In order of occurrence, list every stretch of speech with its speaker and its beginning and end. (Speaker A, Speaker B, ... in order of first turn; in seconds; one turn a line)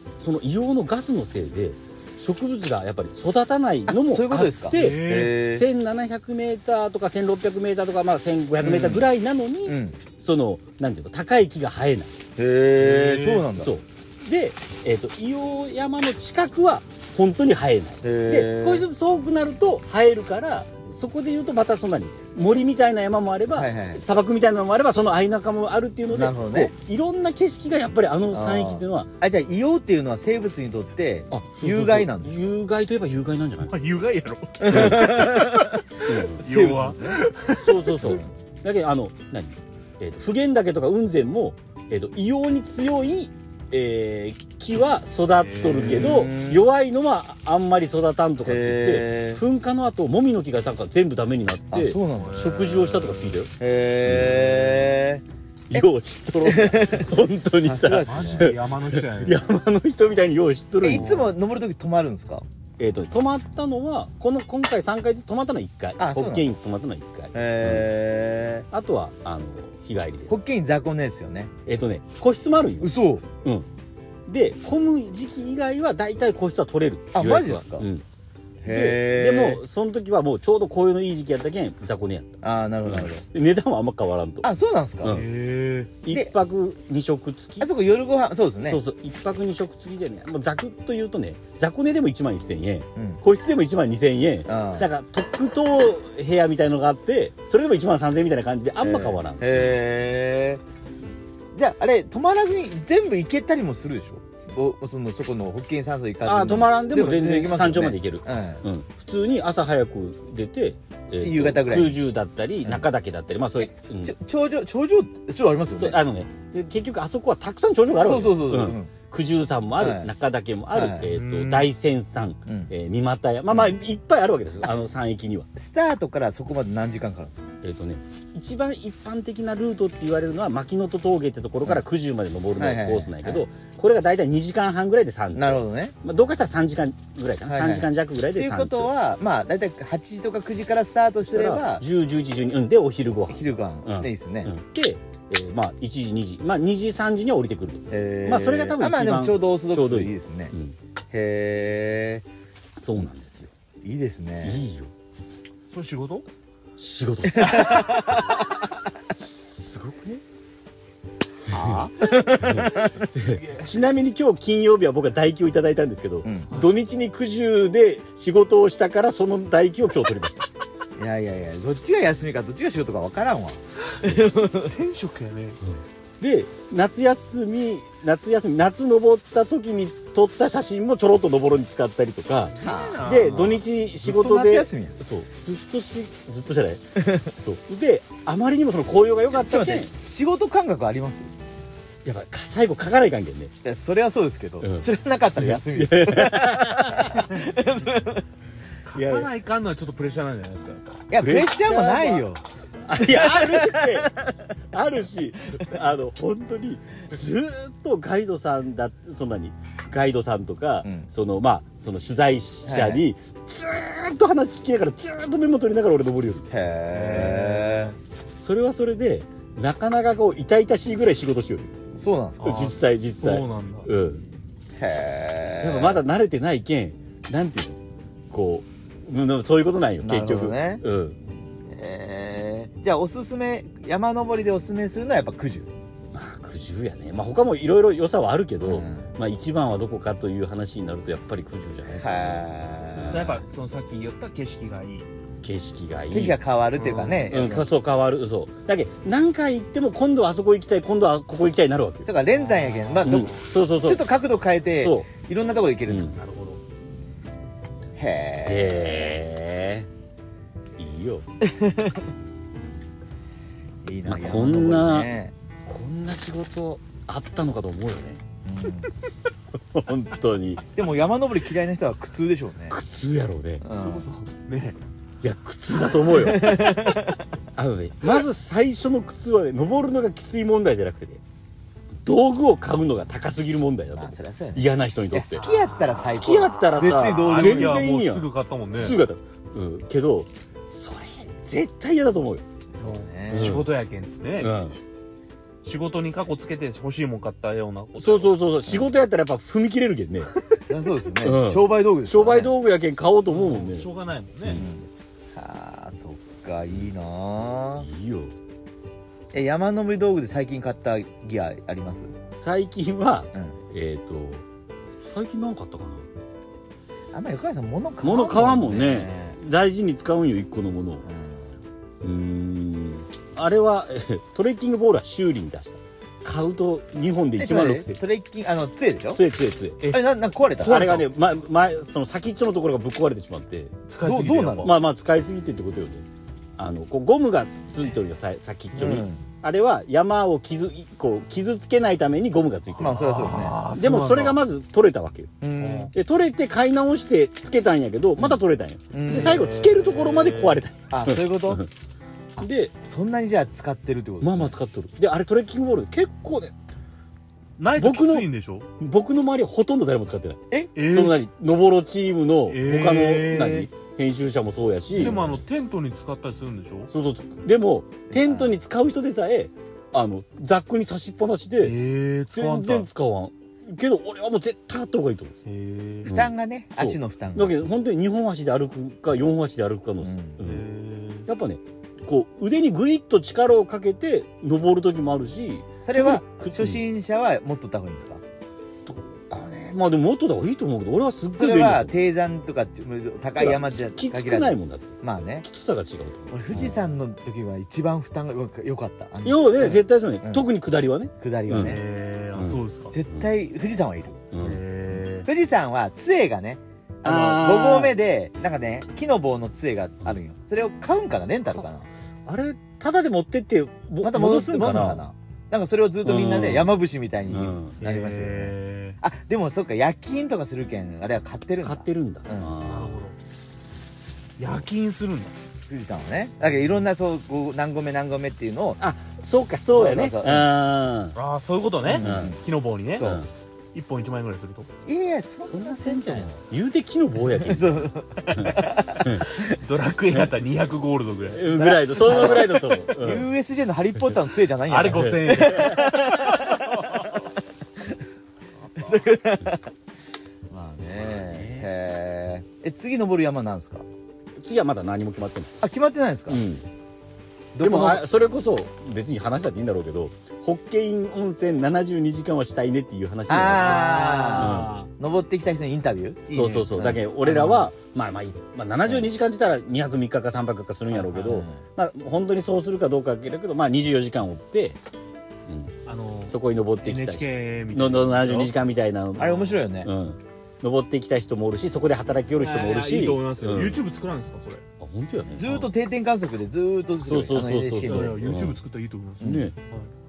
Speaker A: 0.2-12.1
Speaker B: 3.9-5.7
Speaker C: 4.7-5.3
Speaker B: 8.6-9.1
Speaker B: 9.7-10.0
Speaker B: 12.3-13.7
Speaker C: 12.8-13.5
Speaker A: 13.6-29.1
Speaker B: 18.0-18.9
Speaker B: 23.5-24.0
Speaker B: 26.1-26.7
Speaker B: 28.3-32.5
Speaker A: 31.3-33.8
Speaker C: 33.6-38.2
Speaker B: 34.6-35.8
Speaker A: 34.7-35.2
Speaker A: 36.1-36.4
Speaker B: 36.4-37.1
Speaker A: 37.5-53.5
Speaker B: 38.0-38.3
Speaker C: 45.2-46.3
Speaker B: 45.9-46.6
Speaker B: 48.4-49.4
Speaker B: 51.7-52.4
Speaker C: 52.1-53.4
Speaker B: 53.6-55.2
Speaker A: 54.0-54.9
Speaker A: 55.7-61.3
Speaker B: 56.4-57.1
Speaker B: 57.6-58.5
Speaker C: 58.0-59.5
Speaker B: 60.8-62.5
Speaker C: 60.9-61.3
Speaker A: 62.8-67.9
Speaker B: 66.0-66.5
Speaker B: 67.3-68.7
Speaker A: 68.7-70.4
Speaker B: 70.3-71.5
Speaker A: 71.7-73.7
Speaker B: 72.8-73.2
Speaker A: 74.3-78.0
Speaker B: 77.1-77.9
Speaker B: 78.6-79.6
Speaker A: 78.7-82.3
Speaker B: 82.4-83.2
Speaker A: 82.8-84.5
Speaker B: 84.4-85.2
Speaker A: 85.0-85.3
Speaker C: 85.0-85.9
Speaker A: 86.0-87.7
Speaker B: 86.1-86.3
Speaker B: 87.6-88.8
Speaker A: 88.6-99.7
Speaker B: 93.0-93.2
Speaker B: 94.5-94.9
Speaker B: 98.8-100.6
Speaker B: 101.5-108.6
Speaker A: 106.2-114.1
Speaker B: 111.1-112.0
Speaker B: 113.6-116.0
Speaker A: 115.8-125.5
Speaker B: 118.0-118.9
Speaker B: 119.8-120.1
Speaker B: 120.7-121.1
Speaker C: 121.1-121.7
Speaker B: 122.5-122.7
Speaker B: 123.5-123.8
Speaker B: 125.5-127.5
Speaker A: 127.6-138.9
Speaker B: 132.6-133.5
Speaker B: 135.3-135.9
Speaker B: 137.4-141.8
Speaker A: 141.2-150.7
Speaker B: 143.3-144.5
Speaker B: 147.9-150.5
Speaker B: 151.1-152.2
Speaker A: 152.8-153.5
Speaker B: 153.8-154.6
Speaker A: 154.4-154.9
Speaker C: 155.7-156.2
Speaker A: 156.8-157.9
Speaker B: 157.3-158.4
Speaker A: 159.1-160.2
Speaker B: 161.5-163.1
Speaker A: 161.5-170.5
Speaker C: 163.4-163.7
Speaker B: 166.2-166.5
Speaker B: 171.0-174.8
Speaker C: 173.9-175.6
Speaker A: 174.0-174.3
Speaker A: 175.6-189.9
Speaker C: 182.5-183.6
Speaker B: 182.6-185.0
Speaker B: 189.3-191.3
Speaker A: 192.0-193.5
Speaker B: 193.6-198.2
Speaker A: 194.6-197.3
Speaker C: 198.8-201.1
Speaker A: 198.9-199.3
Speaker B: 201.1-202.4
Speaker A: 201.2-202.3
Speaker A: 202.8-204.2
Speaker B: 203.0-204.4
Speaker A: 204.7-216.5
Speaker B: 210.8-211.1
Speaker B: 212.7-213.1
Speaker B: 216.5-217.9
Speaker C: 216.9-218.0
Speaker A: 218.3-221.7
Speaker B: 221.9-222.7
Speaker C: 222.4-223.9
Speaker A: 222.4-224.2
Speaker B: 224.8-226.0
Speaker A: 225.6-227.8
Speaker A: 228.3-231.2
Speaker B: 230.0-230.8
Speaker B: 231.7-235.7
Speaker A: 236.1-243.4
Speaker B: 238.6-239.1
Speaker B: 241.9-243.3
Speaker C: 243.1-245.1
Speaker A: 245.4-246.4
Speaker B: 246.1-247.7
Speaker C: 246.8-247.3
Speaker A: 247.2-252.1
Speaker B: 252.0-256.1
Speaker C: 252.3-253.4
Speaker A: 253.0-254.0
Speaker A: 254.8-255.1
Speaker A: 255.9-256.1
Speaker C: 256.1-256.6
Speaker B: 257.9-259.2
Speaker A: 258.4-259.9
Speaker A: 260.8-261.2
Speaker B: 261.4-262.1
Speaker B: 263.8-265.3
Speaker A: 264.1-265.1
Speaker A: 265.6-268.2
Speaker B: 268.4-268.9
Speaker A: 269.7-270.6
Speaker B: 270.7-272.8
Speaker A: 272.7-273.6
Speaker B: 273.6-274.1
Speaker C: 273.7-274.8
Speaker A: 275.2-276.9
Speaker B: 275.9-277.2
Speaker A: 277.6-281.2
Speaker A: 282.0-285.4
Speaker B: 284.0-287.8
Speaker C: 285.4-286.1
Speaker A: 286.0-292.4
Speaker C: 286.9-289.0
Speaker B: 292.7-293.5
Speaker C: 292.8-294.6
Speaker A: 293.3-293.7
Speaker A: 294.4-294.8
Speaker C: 295.6-298.3
Speaker A: 298.0-300.3
Speaker B: 300.5-302.5
Speaker A: 301.2-303.9
Speaker C: 303.3-304.6
Speaker B: 304.5-307.9
Speaker A: 307.8-308.3
Speaker B: 309.3-312.1
Speaker A: 312.3-314.4
Speaker B: 313.3-313.6
Speaker A: 315.0-316.1
Speaker B: 317.1-319.4
Speaker A: 318.0-321.0
Speaker B: 321.1-321.6
Speaker A: 322.0-328.0
Speaker B: 327.4-329.2
Speaker A: 329.1-330.0
Speaker B: 329.8-331.0
Speaker A: 330.6-333.7
Speaker C: 333.9-334.8
Speaker B: 334.0-334.7
Speaker A: 334.6-336.0
Speaker A: 336.6-343.0
Speaker B: 338.7-339.2
Speaker B: 342.8-343.6
Speaker C: 342.9-344.4
Speaker A: 343.7-345.3
Speaker B: 345.4-345.9
Speaker C: 345.6-345.9
Speaker A: 345.9-351.7
Speaker B: 348.9-349.4
Speaker C: 349.1-350.7
Speaker B: 350.9-351.6
Speaker A: 352.4-352.7
Speaker B: 352.8-354.5
Speaker A: 354.2-356.5
Speaker C: 357.6-358.6
Speaker A: 357.8-365.4
Speaker C: 360.7-361.2
Speaker C: 362.5-363.7
Speaker C: 364.9-366.9
Speaker A: 366.9-375.3
Speaker B: 368.1-368.6
Speaker C: 371.6-372.9
Speaker C: 375.4-376.1
Speaker A: 376.0-380.6
Speaker B: 376.1-377.6
Speaker B: 380.0-380.4
Speaker C: 380.4-381.3
Speaker A: 381.2-386.8
Speaker B: 385.8-388.2
Speaker A: 388.8-391.9
Speaker B: 391.3-395.4
Speaker A: 393.4-396.8
Speaker B: 396.3-400.4
Speaker A: 399.2-401.8
Speaker B: 401.2-401.8
Speaker C: 401.6-402.9
Speaker A: 402.3-403.2
Speaker B: 402.9-404.3
Speaker A: 404.3-404.6
Speaker C: 404.4-405.3
Speaker B: 405.2-411.9
Speaker A: 407.0-408.0
Speaker A: 412.2-415.0
Speaker B: 414.0-422.5
Speaker A: 416.0-416.7
Speaker A: 417.3-417.8
Speaker C: 417.8-419.0
Speaker A: 421.6-423.0
Speaker C: 422.6-423.1
Speaker B: 424.3-424.7
Speaker C: 424.4-425.3
Speaker B: 425.7-428.8
Speaker A: 428.8-431.2
Speaker B: 429.7-430.5
Speaker C: 431.1-433.2
Speaker B: 431.8-432.4
Speaker A: 431.9-432.4
Speaker B: 432.9-433.2
Speaker A: 433.0-433.3
Speaker C: 433.7-434.7
Speaker B: 434.9-436.4
Speaker A: 435.5-439.3
Speaker B: 437.3-439.6
Speaker C: 439.4-441.4
Speaker A: 441.3-443.3
Speaker B: 441.4-447.9
Speaker C: 444.6-447.1
Speaker A: 444.9-445.7
Speaker B: 448.7-449.6
Speaker B: 450.5-453.9
Speaker A: 451.0-451.7
Speaker A: 454.4-455.5
Speaker B: 455.6-456.4
Speaker A: 456.3-456.6
Speaker B: 457.6-458.0
Speaker A: 457.6-463.8
Speaker B: 463.3-467.1
Speaker C: 463.6-464.9
Speaker A: 464.4-464.8
Speaker C: 466.3-467.7
Speaker A: 466.3-474.8
Speaker C: 470.9-471.4
Speaker B: 471.2-471.6
Speaker A: 475.5-475.7
Speaker C: 475.8-478.6
Speaker A: 476.3-483.8
Speaker B: 479.2-479.9
Speaker C: 479.2-479.6
Speaker C: 482.3-484.6
Speaker A: 484.8-485.7
Speaker B: 485.4-488.3
Speaker A: 487.0-488.6
Speaker C: 487.8-489.9
Speaker B: 489.2-489.5
Speaker A: 489.2-489.6